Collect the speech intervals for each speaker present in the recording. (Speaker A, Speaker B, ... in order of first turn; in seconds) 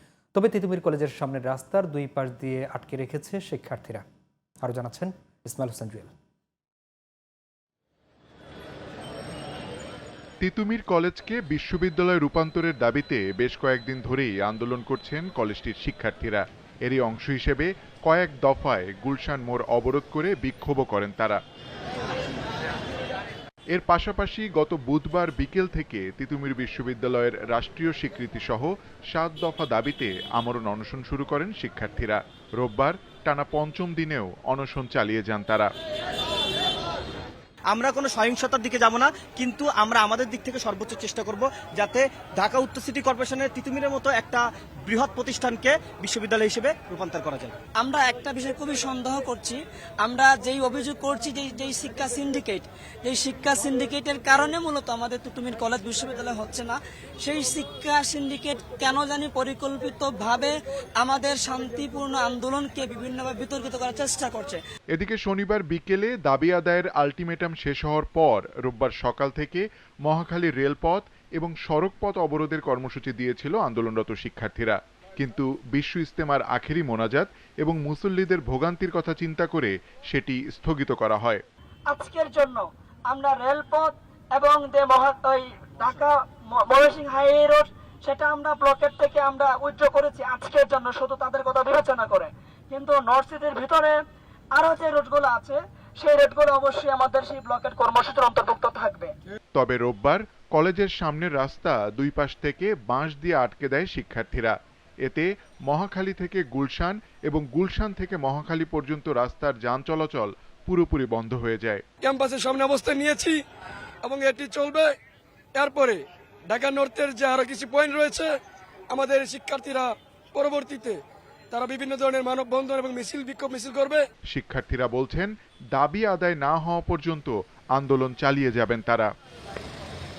Speaker A: 0.3-4.0, 4.6-6.1
Speaker B: 10.4-21.4, 23.7-35.7, 64.9-81.4, 99.5-111.8, 124.3-129.1
Speaker C: 37.7-47.5
Speaker D: 47.8-64.6, 81.9-94.0, 94.5-99.1
Speaker E: 112.0-113.4, 114.0-114.9, 115.6-118.3, 118.9-124.1